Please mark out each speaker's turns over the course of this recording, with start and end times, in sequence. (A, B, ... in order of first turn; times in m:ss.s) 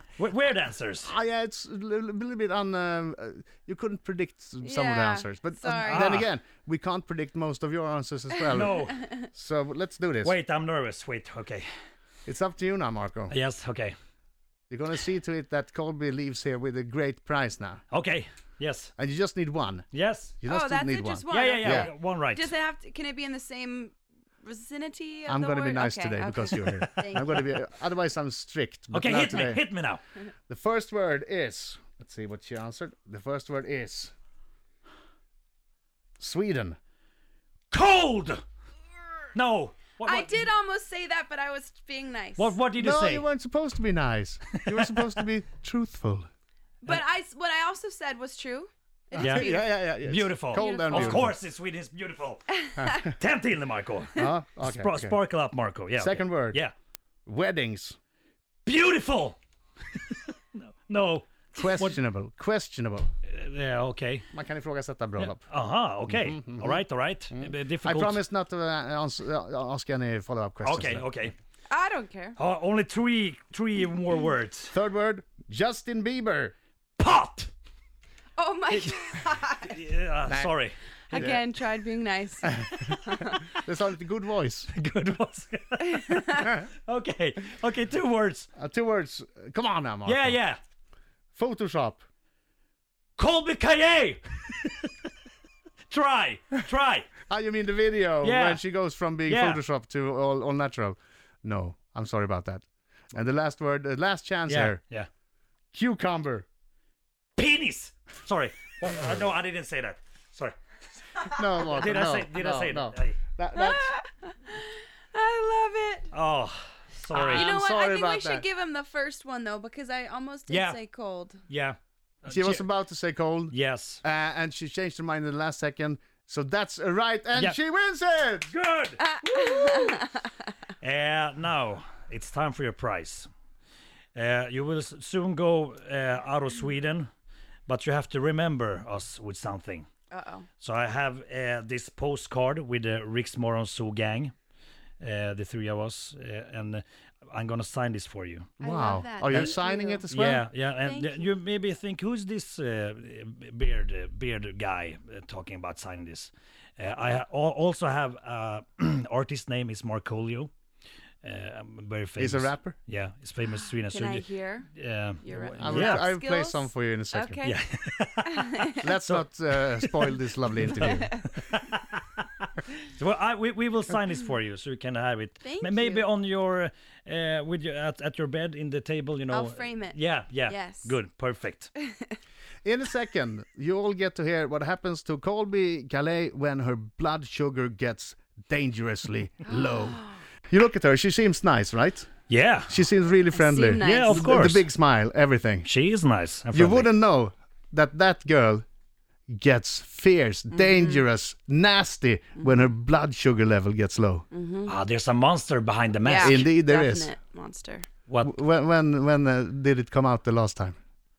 0:00.2-0:01.1 A
0:01.0-0:08.8 B
0:04.6-0:06.2 C
0:05.9-0:06.3 A
0:08.5-0:09.3 C
0:08.5-0:09.0 A
0:09.3-0:10.3 B
0:10.2-0:11.7 A
0:12.3-0:13.4 B
0:13.3-0:14.0 A
0:14.7-0:17.8 B
0:17.9-0:18.9 A
0:19.0-0:19.9 B
0:19.9-0:20.4 A
0:20.4-0:21.9 B
0:20.5-0:27.5 C
0:21.3-0:22.5 A
0:25.3-0:29.6 B
0:28.9-0:30.0 A
0:30.5-0:34.1 B
0:36.2-0:36.8 B
0:37.7-0:38.4 A
0:39.3-0:40.5 A
0:40.0-0:42.6 C
0:42.4-0:43.3 A
0:42.8-0:46.3 B
0:44.7-0:45.1 A
0:46.8-0:49.7 C
0:49.1-0:51.4 B
0:49.2-0:49.5 A
0:50.0-0:56.7 A
0:50.5-0:51.0 C
0:52.6-0:53.0 C
0:52.8-0:53.1 B
0:54.2-0:55.2 B
0:56.0-0:56.6 B
0:57.3-0:58.0 B
0:58.7-0:59.4 A
1:00.0-1:02.0 A
1:01.5-1:03.1 B
1:03.3-1:04.3 A
1:04.3-1:05.5 B
1:05.2-1:08.2 A
1:06.1-1:11.2 B
1:10.6-1:11.3 A
1:11.7-1:12.4 C
1:12.4-1:14.7 A
1:14.7-1:16.6 B
1:17.0-1:17.5 A
1:18.4-1:19.8 C
1:18.7-1:21.5 A
1:20.3-1:20.5 B
1:21.1-1:23.4 C
1:21.1-1:21.4 B
1:22.5-1:22.8 B
1:22.7-1:23.3 A
1:23.5-1:24.7 B
1:24.7-1:28.5 A
1:26.0-1:26.4 C
1:28.6-1:30.4 B
1:30.0-1:30.6 A
1:31.3-1:32.0 B
1:33.2-1:35.0 A
1:35.9-1:37.1 A
1:37.3-1:44.8 B
1:38.2-1:38.6 A
1:39.2-1:39.6 A
1:44.5-1:45.1 A
1:45.7-1:46.5 B
1:47.4-1:50.6 A
1:51.2-1:53.2 A
1:51.3-1:54.0 B
1:53.5-1:56.1 C
1:56.1-1:57.5 A
1:57.1-1:58.4 B
1:57.3-2:01.4 C
2:00.5-2:00.8 A
2:01.5-2:02.7 A
2:02.3-2:08.5 B
2:03.5-2:04.0 A
2:08.5-2:10.1 A
2:09.0-2:10.3 C
2:10.8-2:13.3 A
2:14.2-2:17.1 A
2:17.7-2:19.9 A
2:20.1-2:20.5 C
2:20.6-2:24.3 A
2:25.0-2:28.5 A
2:28.6-2:30.1 C
2:28.6-2:30.5 B
2:29.3-2:29.6 A
2:30.1-2:40.5 A
2:30.8-2:31.3 C
2:41.2-2:46.1 A
2:42.2-2:42.8 B
2:43.9-2:44.7 C
2:45.2-2:47.6 C
2:45.4-2:47.5 B
2:47.4-2:52.3 A
2:48.3-2:48.8 C
2:48.8-2:51.2 B
2:50.8-2:51.3 C
2:52.8-3:01.7 A
2:55.4-2:56.1 C
2:59.3-3:01.0 C
3:01.8-3:02.1 C
3:02.6-3:12.1 B
3:09.5-3:10.2 C
3:12.3-3:12.8 A
3:12.7-3:15.7 B
3:13.3-3:14.3 C
3:13.7-3:14.7 A
3:15.6-3:16.9 A
3:16.5-3:18.6 B
3:19.3-3:24.3 B
3:20.5-3:21.0 C
3:22.4-3:22.7 C
3:24.3-3:24.8 C
3:24.7-3:26.5 A
3:26.0-3:27.9 C
3:26.2-3:27.1 B
3:28.1-3:28.3 A
3:28.2-3:30.8 B